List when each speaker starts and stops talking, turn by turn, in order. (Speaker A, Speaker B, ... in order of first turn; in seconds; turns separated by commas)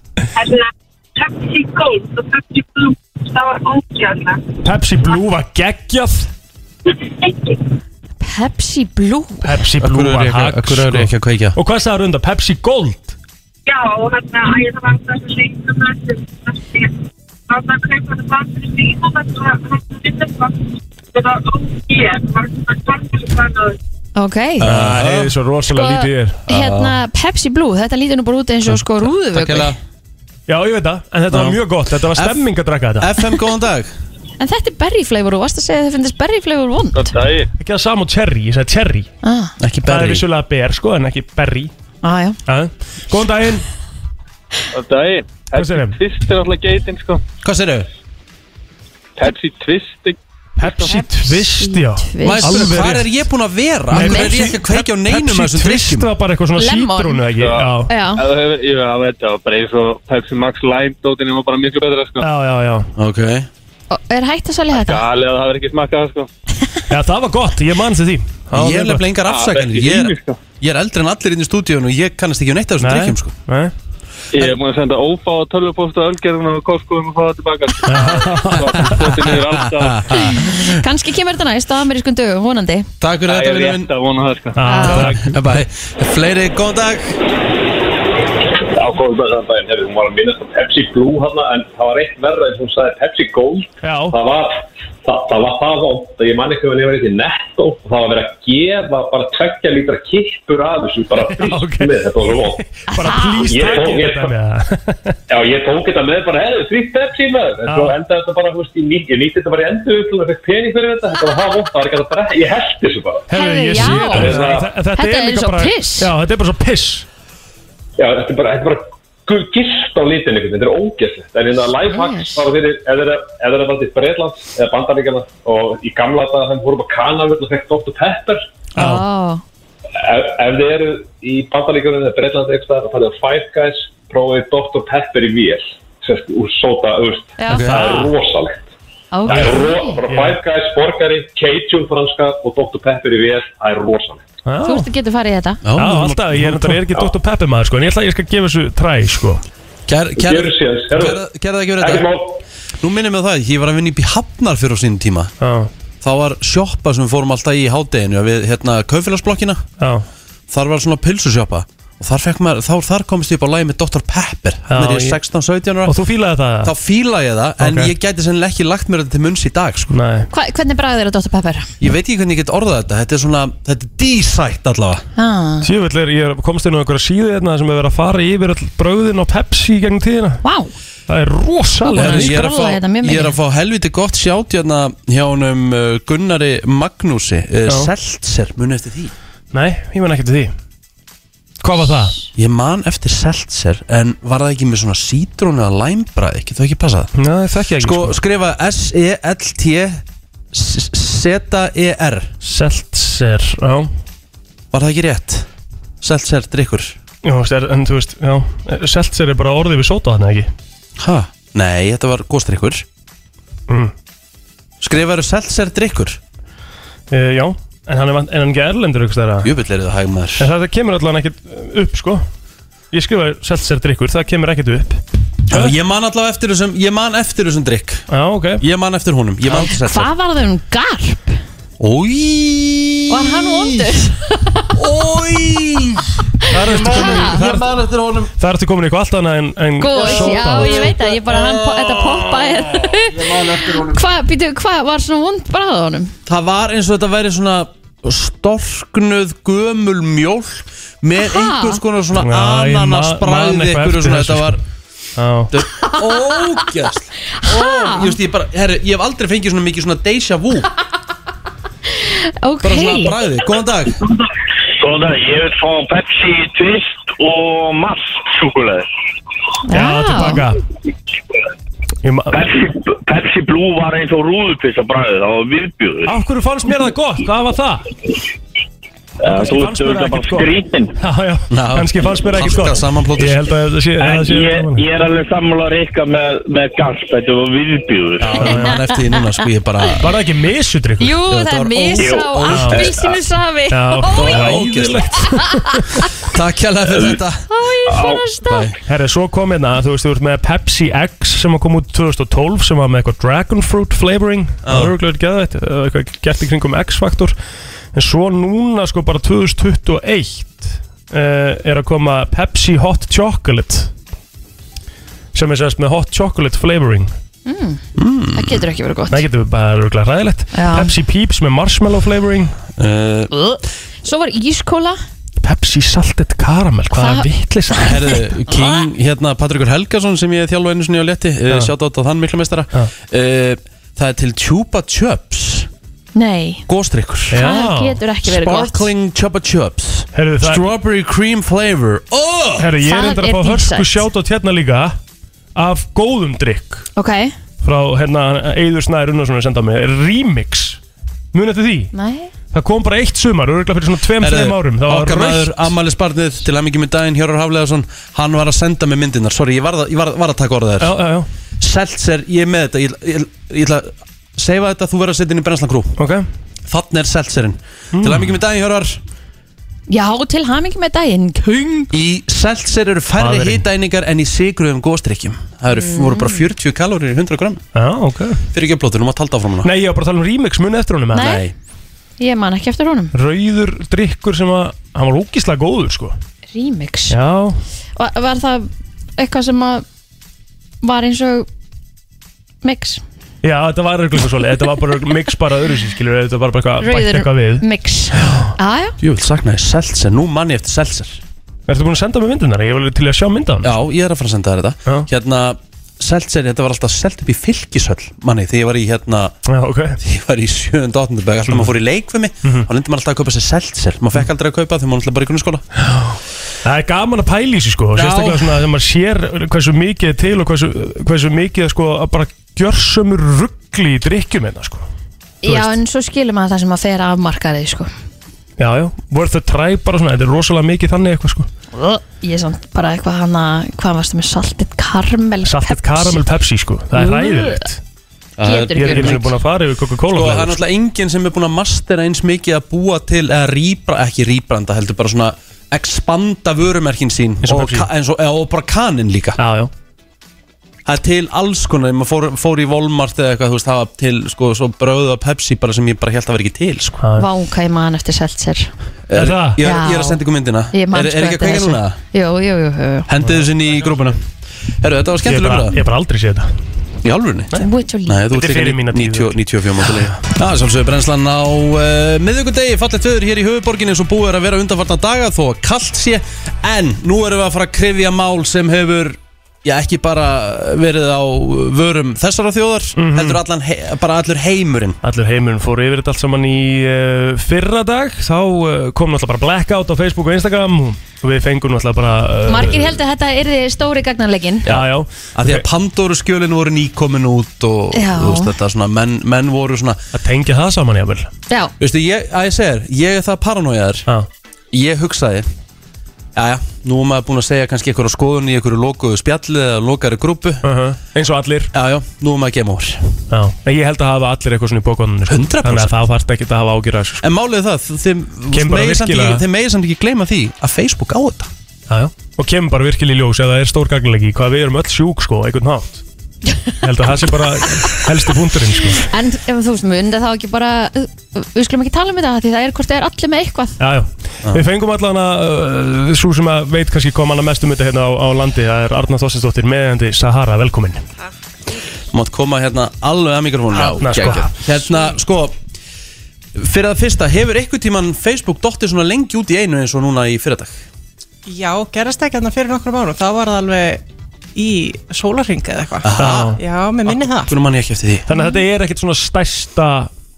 Speaker A: 0.4-4.5, Speaker B: 4.6-6.3, Speaker A: 6.9-7.6, Speaker C: 8.2-9.6, Speaker B: 9.4-13.2, Speaker D: 9.8-11.6, Speaker A: 13.7-16.9, Speaker A: 17.5-23.8, Speaker C: 24.1-24.7, Speaker D: 24.6-25.3, Speaker B: 24.6-26.4, Speaker C: 25.7-29.7, Speaker D: 26.5-27.0, Speaker D: 28.7-29.8, Speaker B: 30.5-33.1, Speaker D: 31.3-31.6, Speaker D: 32.1-32.4, Speaker D: 33.0-33.9, Speaker C: 34.4-37.2, Speaker E: 36.9-37.5, Speaker B: 37.6-39.1, Speaker C: 39.2-39.5, Speaker D: 39.6-40.2, Speaker B: 39.8-41.7, Speaker C: 42.0-42.4, Speaker B: 42.5-43.6, Speaker E: 44.7-47.2, Speaker B: 45.5-46.0, Speaker D: 47.4-47.9, Speaker E: 49.2-50.8, Speaker B: 50.6-53.1, Speaker C: 50.6-52.6, Speaker D: 52.2-56.1, Speaker B: 53.9-57.9, Speaker C: 53.9-54.5, Speaker C: 56.6-57.3, Speaker E: 57.3-62.2, Speaker C: 57.9-58.2, Speaker B: 62.2-62.9, Speaker D: 63.0-63.5, Speaker C: 63.9-65.0, Speaker E: 64.7-66.3, Speaker B: 66.9-69.1, Speaker D: 68.5-73.3, Speaker E: 69.2-70.4, Speaker B: 72.8-73.7, Speaker E: 74.3-80.1, Speaker B: 77.9-79.2, Speaker D: 78.8-80.8, Speaker C: 80.1-82.9, Speaker D: 83.0-83.9, Speaker E: 83.2-85.0, Speaker B: 84.5-85.4, Speaker C: 84.6-85.1, Speaker D: 85.0-87.2, Speaker F: 88.7-102.6, Speaker B: 93.8-94.2, Speaker B: 101.2-105.2, Speaker C: 102.9-103.7, Speaker F: 103.5-104.3, Speaker F: 105.3-114.7, Speaker B: 107.6-108.0, Speaker B: 113.3-117.0, Speaker C: 113.3-116.1, Speaker F: 118.0-128.4, Speaker C: 121.9-122.4, Speaker B: 128.8-129.0, Speaker C: 128.8-129.4, Speaker F: 130.0-138.7, Speaker C: 137.4-137.7, Speaker D: 137.5-137.9, Speaker B: 137.7-138.1, Speaker C: 139.1-140.0, Speaker F: 139.3-144.2, Speaker B: 139.3-140.4, Speaker B: 144.4-144.9, Speaker C: 144.6-145.6, Speaker D: 145.6-146.8, Speaker B: 145.8-149.4, Speaker D: 149.9-152.1, Speaker F: 150.2-151.2, Speaker F: 151.8-152.4, Speaker D: 152.8-155.3, Speaker B: 155.4-155.7, Speaker D: 156.0-159.6, Speaker B: 159.8-160.1, Speaker D: 160.5-165.9, Speaker B: 164.7-165.2, Speaker B: 165.8-166.7, Speaker D: 166.6-169.9, Speaker B: 167.6-167.9, Speaker B: 169.9-170.3, Speaker C: 170.3-171.7, Speaker D: 171.8-175.0, Speaker C: 175.2-175.7, Speaker B: 175.6-180.4, Speaker C: 180.4-180.7, Speaker B: 181.1-182.4, Speaker C: 181.8-183.4, Speaker D: 181.9-189.1, Speaker B: 189.5-190.5, Speaker B: 191.6-192.2, Speaker D: 192.3-197.1, Speaker B: 197.2-198.2, Speaker D: 197.8-202.3, Speaker B: 202.4-203.9, Speaker D: 204.7-205.5, Speaker D: 206.0-206.9, Speaker B: 207.2-210.5, Speaker D: 211.0-212.8, Speaker D: 214.8-216.2, Speaker B: 217.1-219.5, Speaker D: 219.4-220.5, Speaker B: 220.4-222.3, Speaker B: 222.9-225.7, Speaker D: 225.5-228.0, Speaker B: 228.1-228.6, Speaker D: 228.6-230.1, Speaker C: 229.6-231.4, Speaker D: 231.8-233.9, Speaker C: 233.1-234.7, Speaker D: 234.7-238.3, Speaker B: 236.5-237.7, Speaker C: 236.7-237.4, Speaker B: 238.4-241.0, Speaker C: 239.8-246.1, Speaker D: 240.0-243.9, Speaker D: 246.3-254.6, Speaker C: 251.2-251.8, Speaker B: 252.2-254.6, Speaker B: 255.2-255.5, Speaker D: 255.5-260.7, Speaker C: 255.8-256.6, Speaker C: 257.3-258.1, Speaker C: 261.9-263.2, Speaker D: 262.6-264.0, Speaker G: 264.8-268.9, Speaker C: 269.6-270.4, Speaker B: 269.7-270.6, Speaker B: 272.0-272.4, Speaker G: 272.3-276.1, Speaker B: 276.1-277.9, Speaker G: 279.2-280.9, Speaker B: 279.3-284.8, Speaker D: 281.5-283.4, Speaker G: 284.0-288.4, Speaker D: 288.2-290.1, Speaker B: 288.4-288.8, Speaker C: 288.4-288.9, Speaker B: 290.0-291.2, Speaker C: 291.0-294.7, Speaker D: 291.3-292.9, Speaker G: 292.0-292.4, Speaker B: 292.5-292.9, Speaker B: 293.7-295.9, Speaker D: 294.1-295.1, Speaker C: 295.2-295.8, Speaker D: 296.2-297.5, Speaker C: 297.5-298.6, Speaker G: 297.9-298.2, Speaker D: 298.4-298.8, Speaker B: 298.9-307.3, Speaker D: 304.6-304.9, Speaker B: 307.9-313.9, Speaker B: 315.3-317.1, Speaker C: 317.4-317.8, Speaker D: 317.9-318.6, Speaker C: 318.3-319.2, Speaker B: 319.1-322.6, Speaker C: 320.5-320.9, Speaker D: 322.8-323.3, Speaker C: 323.3-325.0, Speaker B: 325.4-328.0, Speaker C: 326.9-328.8, Speaker D: 327.8-335.7, Speaker C: 336.1-336.6, Speaker D: 336.7-337.4, Speaker C: 337.3-338.9, Speaker B: 337.3-338.0, Speaker D: 338.2-342.7, Speaker B: 340.1-340.6, Speaker B: 342.6-345.0, Speaker C: 342.8-344.1, Speaker B: 345.6-346.9, Speaker C: 346.9-347.3, Speaker B: 347.6-350.8, Speaker B: 351.3-351.9, Speaker C: 351.9-352.3, Speaker B: 352.5-355.7, Speaker D: 354.2-360.9, Speaker B: 360.8-361.3, Speaker D: 361.6-365.9, Speaker B: 366.0-366.2, Speaker D: 366.7-369.0, Speaker B: 367.9-368.3, Speaker C: 369.9-371.9, Speaker D: 371.9-377.6, Speaker B: 373.2-373.6, Speaker C: 375.7-376.5, Speaker B: 377.7-378.4, Speaker D: 378.5-379.7, Speaker B: 379.6-381.4, Speaker C: 381.1-381.4, Speaker D: 381.1-381.5, Speaker C: 382.2-383.1, Speaker B: 383.1-386.1, Speaker C: 386.5-387.1, Speaker B: 387.1-387.6, Speaker C: 387.9-389.9, Speaker C: 390.8-391.5, Speaker C: 392.6-393.0, Speaker B: 393.4-397.6, Speaker C: 396.8-399.0, Speaker B: 398.1-398.5, Speaker D: 399.0-401.2, Speaker B: 401.7-403.7, Speaker D: 403.6-409.3, Speaker B: 409.4-410.0, Speaker D: 410.0-415.6, Speaker B: 415.8-424.9, Speaker D: 417.9-418.6, Speaker C: 425.4-427.9, Speaker B: 425.4-425.7, Speaker B: 428.6-431.5, Speaker C: 431.7-436.2, Speaker B: 435.4-437.8, Speaker C: 436.9-437.6, Speaker D: 438.4-439.3, Speaker C: 438.4-439.3, Speaker B: 438.7-440.6, Speaker D: 440.1-449.4, Speaker B: 447.4-447.9, Speaker B: 449.4-449.7, Speaker D: 450.9-457.0, Speaker B: 457.0-457.3, Speaker C: 457.2-458.7, Speaker D: 459.1-462.0, Speaker B: 459.1-459.6, Speaker C: 459.6-460.2, Speaker C: 460.7-463.1, Speaker D: 463.1-464.2, Speaker B: 463.2-464.1, Speaker D: 464.8-465.8, Speaker B: 465.2-466.5, Speaker D: 467.0-467.5, Speaker C: 467.5-468.2, Speaker D: 468.1-485.0, Speaker B: 468.3-470.1, Speaker B: 482.9-483.4, Speaker B: 485.0-493.0, Speaker C: 492.5-494.7, Speaker D: 494.6-500.0, Speaker B: 494.7-495.6, Speaker C: 497.9-498.5, Speaker B: 500.1-501.3, Speaker C: 501.5-501.7, Speaker D: 501.8-504.1, Speaker D: 504.7-505.5, Speaker D: 506.4-510.6, Speaker B: 510.6-511.7, Speaker D: 511.7-513.0, Speaker B: 513.3-517.2, Speaker D: 515.3-515.9, Speaker D: 517.2-521.5, Speaker B: 518.5-519.4, Speaker B: 521.9-526.0, Speaker B: 526.8-529.1, Speaker C: 528.9-533.8, Speaker B: 533.8-541.0, Speaker D: 542.1-545.5, Speaker H: 543.9-545.1, Speaker B: 543.9-544.5, Speaker D: 546.5-550.8, Speaker H: 551.5-554.0, Speaker H: 554.5-557.5, Speaker D: 556.0-556.5, Speaker B: 556.2-556.6, Speaker D: 557.1-558.3, Speaker B: 558.3-560.1, Speaker C: 558.3-558.6